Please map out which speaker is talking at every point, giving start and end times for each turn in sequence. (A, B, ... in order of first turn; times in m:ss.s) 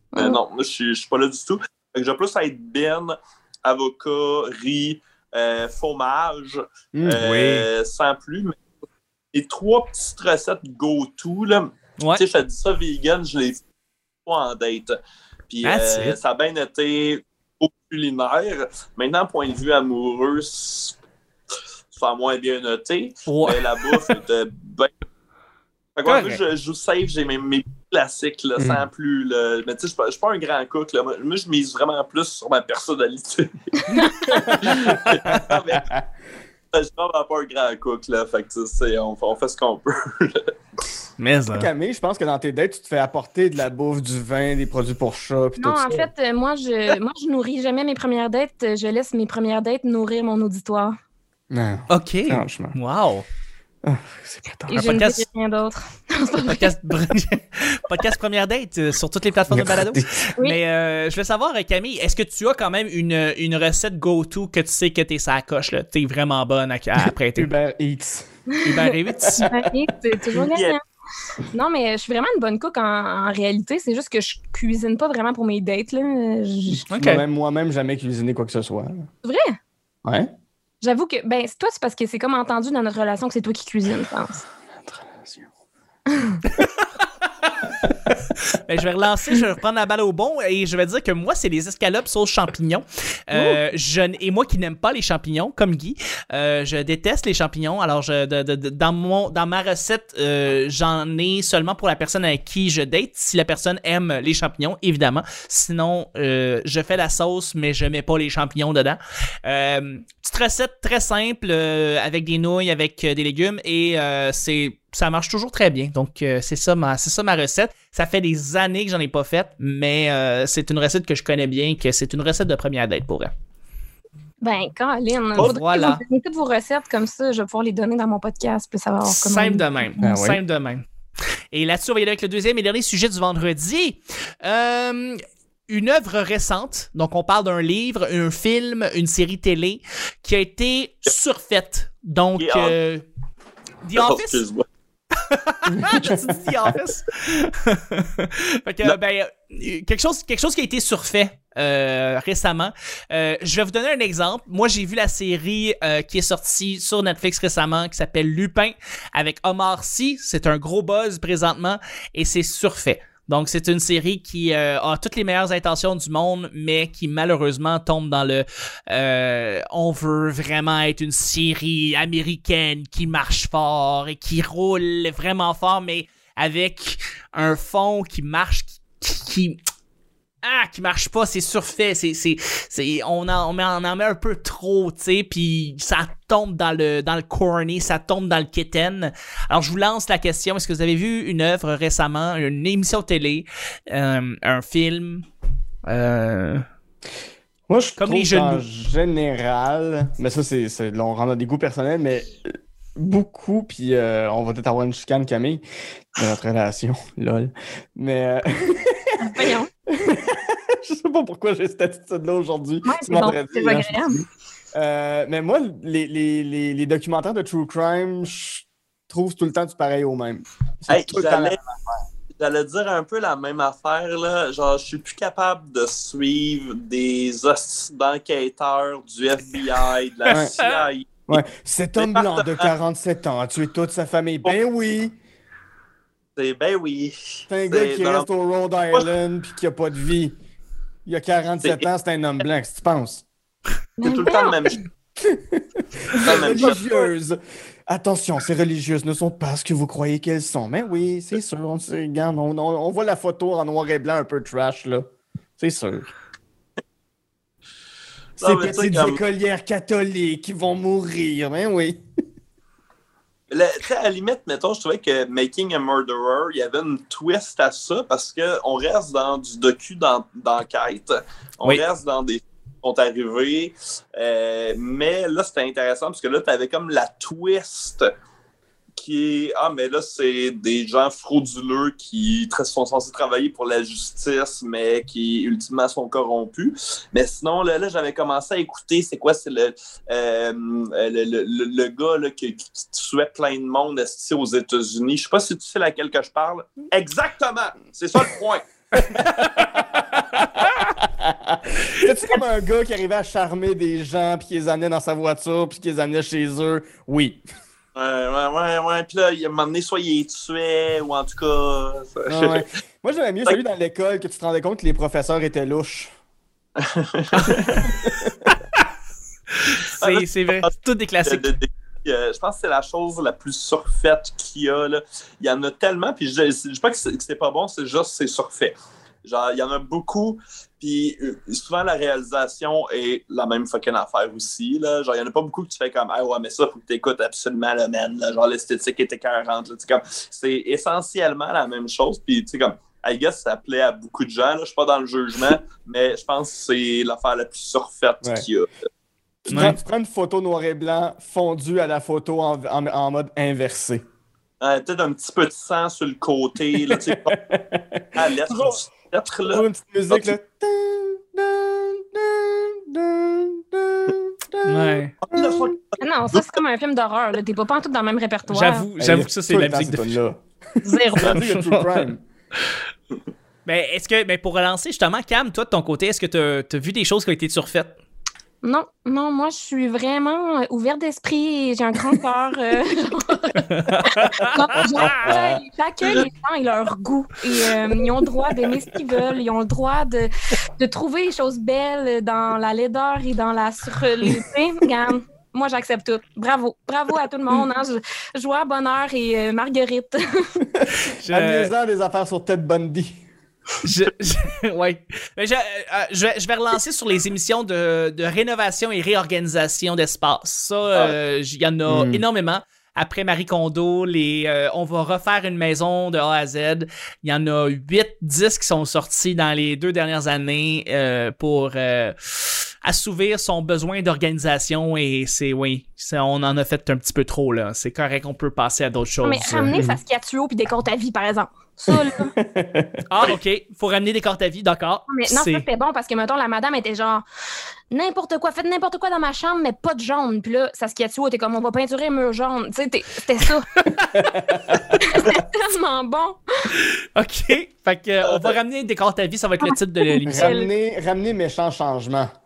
0:00.2-0:08.6 A
0:06.9-0:07.2 B
0:07.2-0:07.7 C
0:09.3-0:13.6 A
0:14.3-0:15.0 A
0:15.5-0:21.0 A
0:15.6-0:16.2 C
0:21.9-0:24.9 A
0:23.3-0:24.2 C
0:26.0-0:34.1 A
0:26.1-0:26.4 C
0:28.6-0:28.9 B
0:33.9-0:34.4 D
0:34.3-0:35.0 B
0:34.6-0:35.9 A
0:36.7-0:40.5 A
0:41.2-0:41.7 C
0:41.5-0:46.1 B
0:45.6-0:50.9 D
0:51.5-0:52.8 B
0:51.9-0:53.2 C
0:53.8-0:54.8 B
0:54.7-0:56.7 D
0:54.7-0:55.2 C
0:56.4-1:07.5 C
0:59.5-1:00.2 B
1:07.4-1:08.3 B
1:08.6-1:09.5 C
1:09.2-1:09.6 B
1:09.5-1:10.8 D
1:10.4-1:10.8 A
1:11.5-1:16.8 D
1:16.7-1:19.1 B
1:16.9-1:17.2 C
1:19.2-1:19.6 D
1:20.8-1:24.4 D
1:24.8-1:25.5 B
1:28.7-2:03.3 C
2:04.4-2:09.9 D
2:05.4-2:06.0 C
2:09.1-2:10.8 C
2:10.0-2:10.4 B
2:11.5-2:15.2 C
2:15.7-2:23.0 C
2:22.4-2:22.8 A
2:23.8-2:24.4 C
2:24.0-2:24.6 A
2:25.3-2:59.6 C
2:25.7-2:26.3 B
3:00.4-3:15.2 C
3:15.9-3:16.6 C
3:17.7-3:22.4 B
3:18.0-3:18.6 C
3:23.0-3:25.6 B
3:26.2-3:42.0 B
3:29.2-3:29.7 D
3:32.8-3:34.2 D
3:40.9-3:41.6 A
3:42.4-3:51.3 A
3:50.3-3:50.9 C
3:50.3-3:50.6 B
3:51.3-3:55.2 B
3:52.0-3:52.7 A
3:56.4-3:58.3 A
3:57.5-4:00.4 B
4:01.1-4:03.2 B
4:04.0-4:04.8 D
4:04.0-4:04.8 A
4:05.2-4:05.6 B
4:06.1-4:15.1 B
4:06.2-4:07.1 A
4:15.6-4:16.1 B
4:18.4-4:19.2 A
4:18.4-4:22.0 B
4:23.5-4:38.0 A
4:39.0-4:58.7 A
4:59.0-5:07.4 B
5:08.0-5:12.6 A
5:12.3-5:16.1 B
5:16.8-5:17.9 A
5:18.0-5:18.3 B
5:19.6-5:21.5 C
5:20.0-5:20.7 A
5:21.3-5:48.7 A
5:49.4-5:54.0 B
5:49.5-5:49.8 C
5:54.6-5:57.3 A
5:56.8-5:58.8 B
5:58.2-6:00.4 A
5:59.5-6:05.8 B
6:04.6-6:05.2 C
6:05.2-6:06.5 A
6:06.0-6:08.9 D
6:08.5-6:10.2 C
6:09.0-6:10.4 B
6:10.8-6:12.1 C
6:11.1-6:12.2 B
6:13.7-6:17.9 C
6:18.6-6:40.2 D
6:23.7-6:24.5 C
6:25.0-6:25.6 B
6:40.8-6:43.2 B
6:41.0-6:41.7 C
6:43.8-7:09.8 C
6:51.9-6:52.2 B
7:09.2-7:12.3 D
7:12.4-7:13.3 B
7:13.1-7:15.6 C
7:15.1-7:17.2 D
7:17.9-7:23.7 D
7:24.2-7:24.8 B
7:25.0-7:26.4 D
7:27.2-7:30.5 C
7:28.2-7:28.6 A
7:30.1-7:30.7 D
7:30.3-7:32.3 B